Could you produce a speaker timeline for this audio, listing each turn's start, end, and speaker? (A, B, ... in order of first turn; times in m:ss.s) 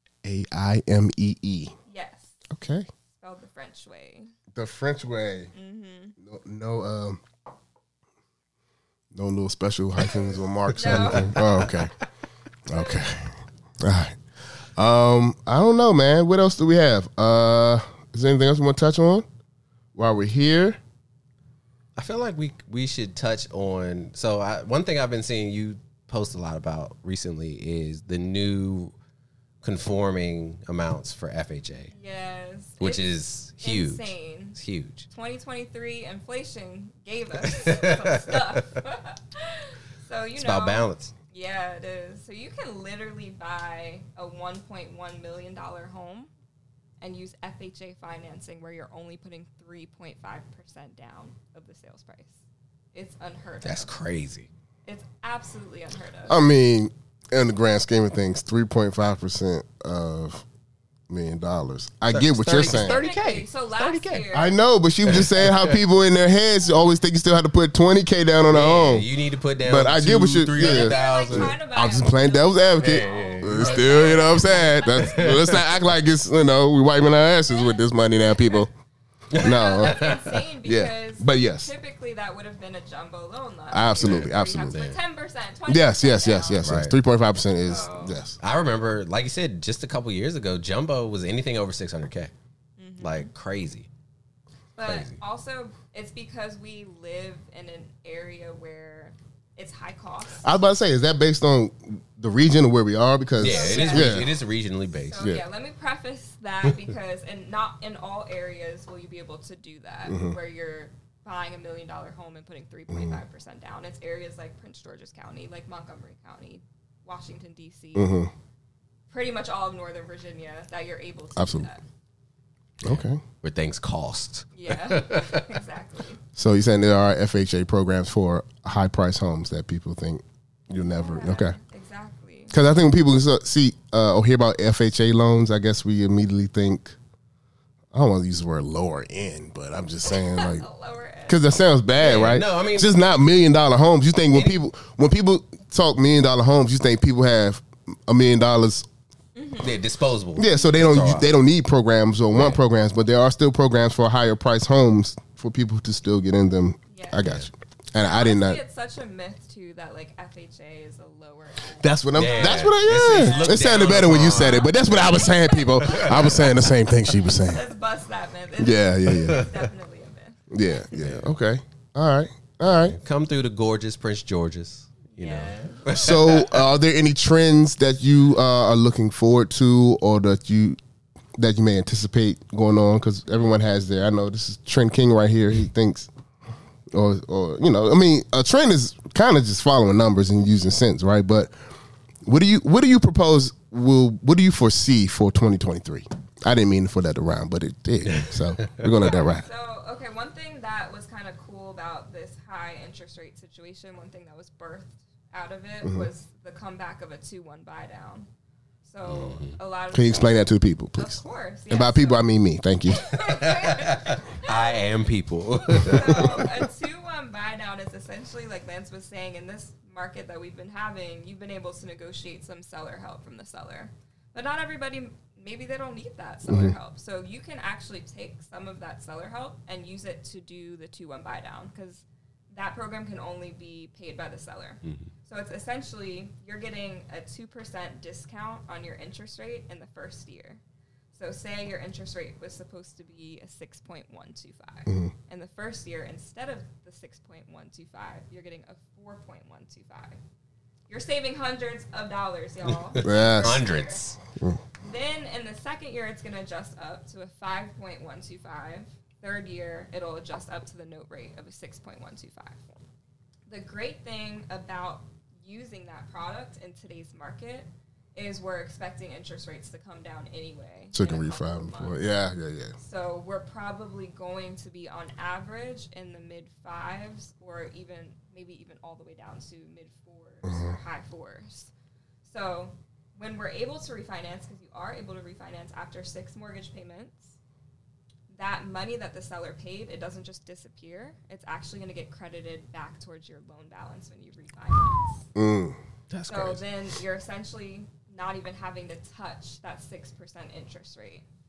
0:00.2-0:01.7 A
0:01.9-0:02.4 B
0:02.5-0:02.9 A
0:03.1-0:04.3 B
0:04.5-0:05.5 A
0:05.5-0:06.2 B
0:06.2-0:07.2 A
0:09.1-0:11.9 A
0:10.7-0:11.9 C
0:10.8-0:11.5 B
0:12.7-0:14.2 A
0:14.8-0:19.2 A
0:19.9-0:20.8 A
0:22.0-0:28.9 C
0:29.6-0:31.9 C
0:31.9-0:34.6 B
0:32.8-0:35.1 C
0:35.1-0:46.3 B
0:37.4-0:38.6 C
0:40.4-0:41.1 C
0:47.0-0:52.4 B
0:52.9-0:53.9 B
0:53.6-0:54.5 C
0:54.8-0:56.4 B
0:56.3-1:00.4 A
1:01.1-1:03.0 A
1:02.1-1:04.3 C
1:02.5-1:04.6 B
1:04.3-1:09.1 A
1:05.0-1:05.8 C
1:08.5-1:11.6 C
1:09.6-1:18.7 A
1:10.6-1:15.3 B
1:12.8-1:15.8 C
1:17.5-1:17.8 B
1:19.3-1:20.4 C
1:19.4-1:21.7 A
1:19.4-1:26.7 B
1:23.7-1:24.8 A
1:24.0-1:25.0 C
1:25.7-1:28.4 A
1:26.6-1:27.0 C
1:27.6-1:28.2 B
1:28.4-1:32.3 C
1:32.8-1:33.3 B
1:33.0-1:33.9 C
1:34.8-1:40.5 B
1:34.8-1:35.2 C
1:40.4-1:44.3 A
1:43.4-1:45.2 C
1:43.4-1:44.3 B
1:45.0-1:58.2 B
1:50.0-1:50.4 A
1:52.9-1:53.2 A
1:57.9-1:58.3 A
1:59.1-2:01.8 B
2:01.4-2:01.7 A
2:02.8-2:03.2 A
2:02.8-2:05.5 C
2:04.5-2:06.2 B
2:06.4-2:11.6 A
2:10.8-2:12.6 B
2:12.5-2:17.0 A
2:17.9-2:20.6 A
2:20.0-2:21.6 B
2:21.3-2:28.9 A
2:22.0-2:22.9 C
2:24.3-2:24.6 C
2:29.4-2:29.8 B
2:29.6-2:31.3 C
2:30.4-2:38.6 A
2:32.3-2:32.6 C
2:36.9-2:37.3 B
2:37.2-2:37.5 C
2:38.0-2:46.6 B
2:41.8-2:47.7 A
2:42.1-2:46.4 C
2:47.1-2:50.9 B
2:48.6-2:49.5 A
2:50.5-2:53.0 A
2:50.9-2:51.3 C
2:52.6-2:56.7 C
2:55.1-2:56.0 B
2:55.9-3:00.8 A
3:01.4-3:06.1 A
3:06.9-3:11.5 A
3:12.2-3:19.5 A
3:18.0-3:18.9 C
3:19.0-3:28.3 B
3:25.8-3:26.1 A
3:28.8-3:32.2 B
3:29.0-3:29.6 C
3:29.9-3:33.1 A
3:32.9-3:34.9 B
3:33.1-3:36.5 C
3:35.6-4:00.6 B
3:35.8-3:36.5 A
3:46.5-3:46.7 A
3:54.8-3:55.1 C
4:01.1-4:10.2 B
4:04.9-4:05.1 A
4:10.9-4:14.0 B
4:12.7-4:14.2 C
4:13.0-4:13.6 A
4:14.8-4:22.8 B
4:23.5-4:32.0 B
4:30.9-4:32.7 A
4:32.8-4:41.7 B
4:40.4-4:40.8 A
4:42.2-4:47.4 B
4:48.3-4:55.2 B
4:55.3-4:55.8 A
4:56.1-4:56.6 C
4:56.3-5:01.2 B